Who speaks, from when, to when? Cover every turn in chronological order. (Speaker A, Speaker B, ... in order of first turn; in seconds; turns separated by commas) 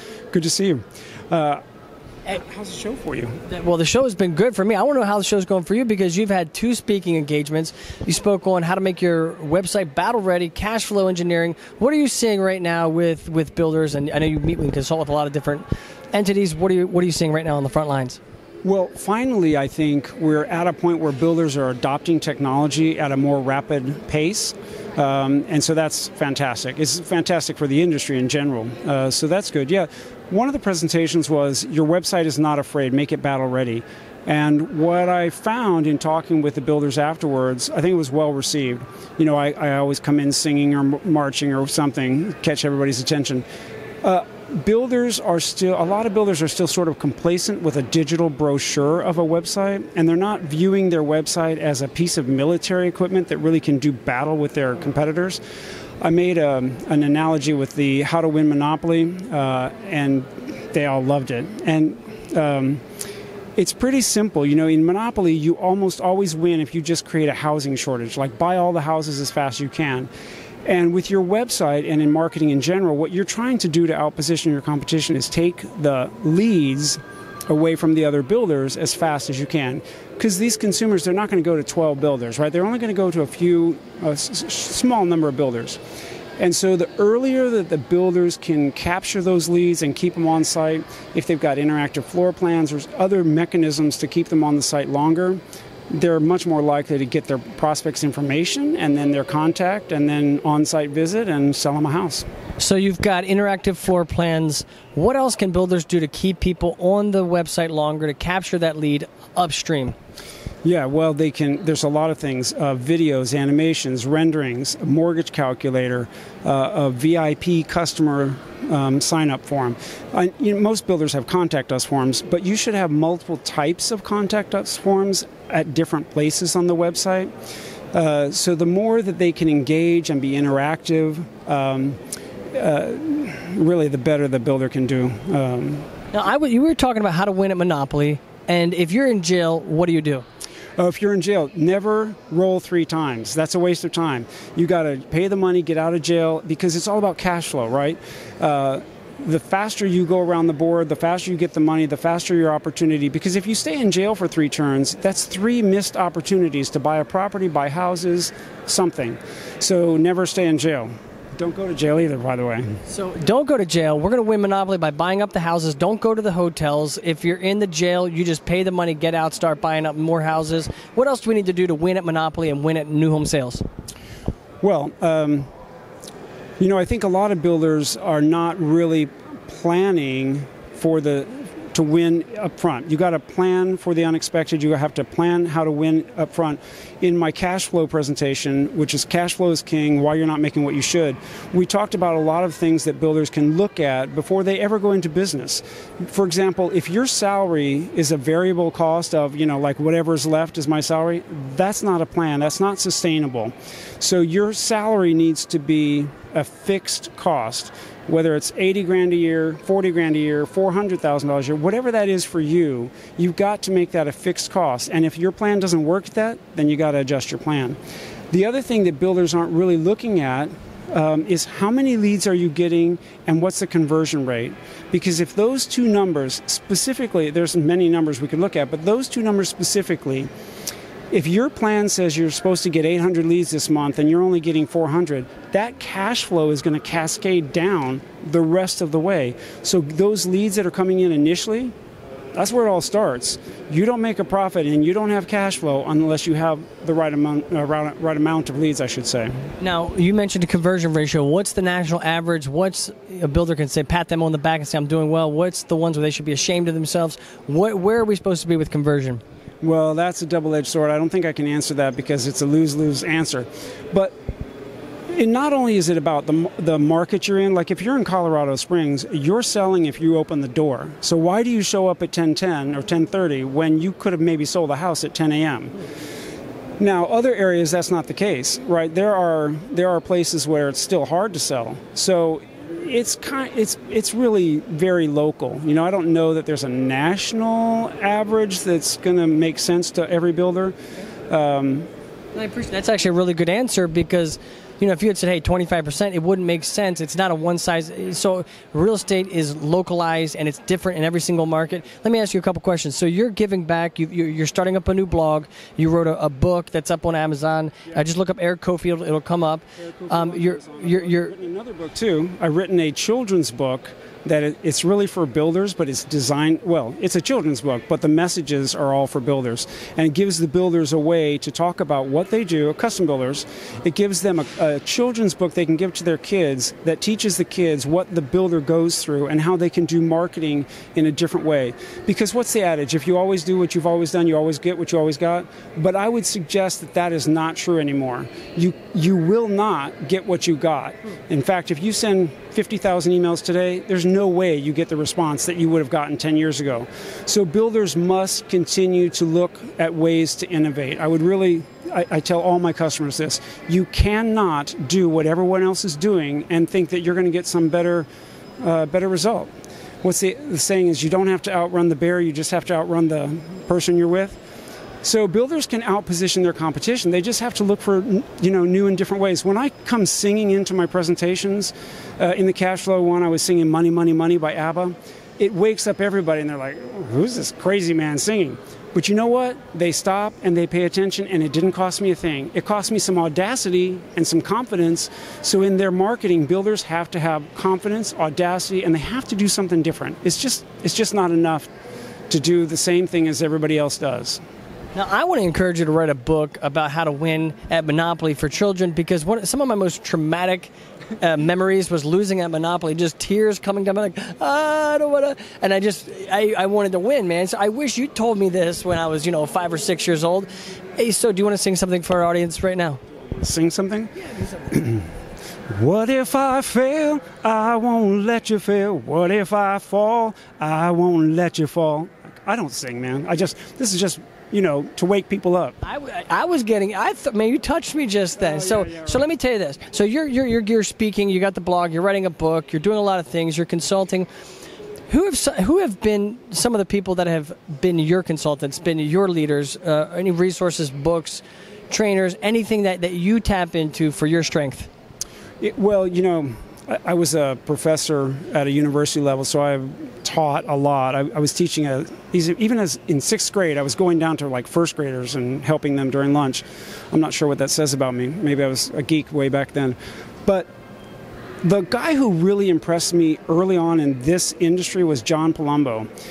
Speaker A: 0.3-1.6, Speaker A: 2.3-3.4, Speaker B: 3.5-18.2, Speaker A: 18.6-43.5, Speaker A: 44.0-55.4, Speaker A: 56.0-62.8, Speaker A: 63.6-70.1, Speaker A: 70.7-85.8, Speaker A: 86.4-102.3, Speaker B: 102.6-110.0, Speaker A: 110.6-127.3, Speaker A: 127.9-132.0, Speaker A: 132.5-135.9, Speaker B: 136.1-140.2, Speaker A: 140.8-162.8, Speaker B: 162.9-173.6, Speaker A: 174.6-175.5, Speaker A: 176.6-217.8, Speaker A: 218.3-230.3, Speaker A: 231.1-241.7, Speaker A: 242.3-249.3, Speaker B: 249.6-259.2, Speaker A: 259.6-264.1, Speaker A: 265.1-275.8, Speaker A: 276.8-290.8, Speaker A: 291.3-291.9, Speaker B: 292.3-311.3, Speaker A: 309.8-358.1, Speaker A: 358.6-359.5, Speaker A: 360.0-364.4, Speaker A: 365.0-391.7, Speaker A: 392.3-394.4, Speaker B: 394.9-413.0, Speaker A: 413.4-415.1, Speaker A: 415.7-425.8, Speaker B: 425.8-434.3, Speaker A: 428.5-429.0, Speaker B: 435.1-444.9, Speaker A: 445.6-460.7, Speaker A: 461.6-466.1